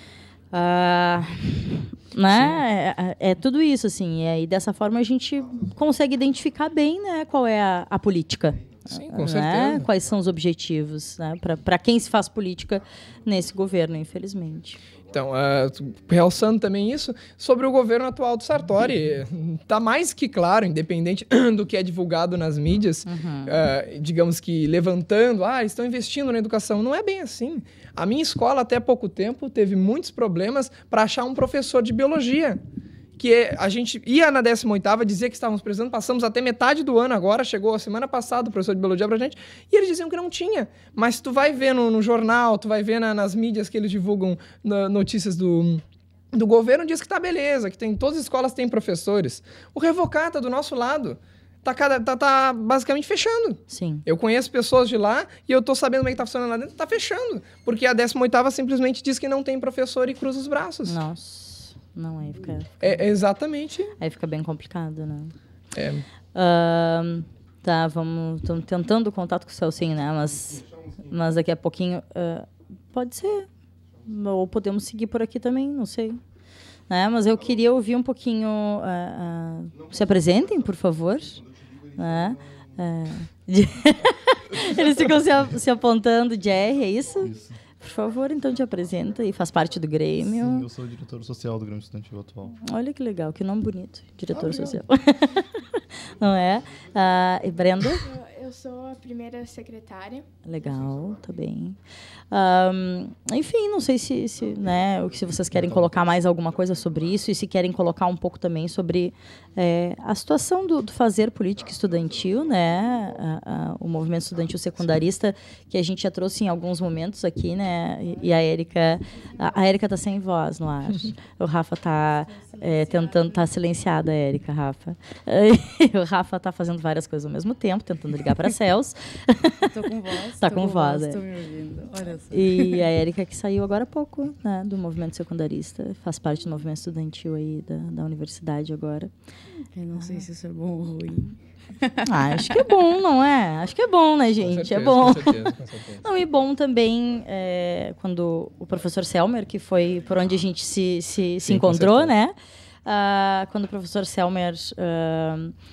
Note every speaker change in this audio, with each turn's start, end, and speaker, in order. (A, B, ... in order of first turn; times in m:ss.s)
0:00.5-0:14.8 A
0:08.9-0:09.9 B
0:15.1-0:32.6 B
0:23.0-0:23.6 A
0:33.2-1:01.0 B
0:53.7-0:54.0 A
1:00.9-1:03.0 A
1:02.8-1:03.9 B
1:04.0-1:05.3 A
1:05.7-1:06.0 B
1:06.3-1:13.5 A
1:14.0-1:16.2 A
1:16.9-1:30.7 A
1:24.6-1:25.2 C
1:27.2-1:27.6 C
1:30.2-1:32.5 C
1:32.6-1:38.0 A
1:34.3-1:34.8 C
1:38.0-1:40.2 D
1:40.4-1:41.8 A
1:42.3-2:09.8 A
2:09.7-2:12.9 E
2:10.4-2:11.2 A
2:12.3-2:19.1 A
2:19.7-2:22.6 E
2:20.0-2:20.2 A
2:22.0-2:25.4 A
2:24.4-2:26.0 B
2:26.0-2:32.3 A
2:31.4-2:32.1 B
2:31.5-2:31.8 C
2:32.8-2:35.5 A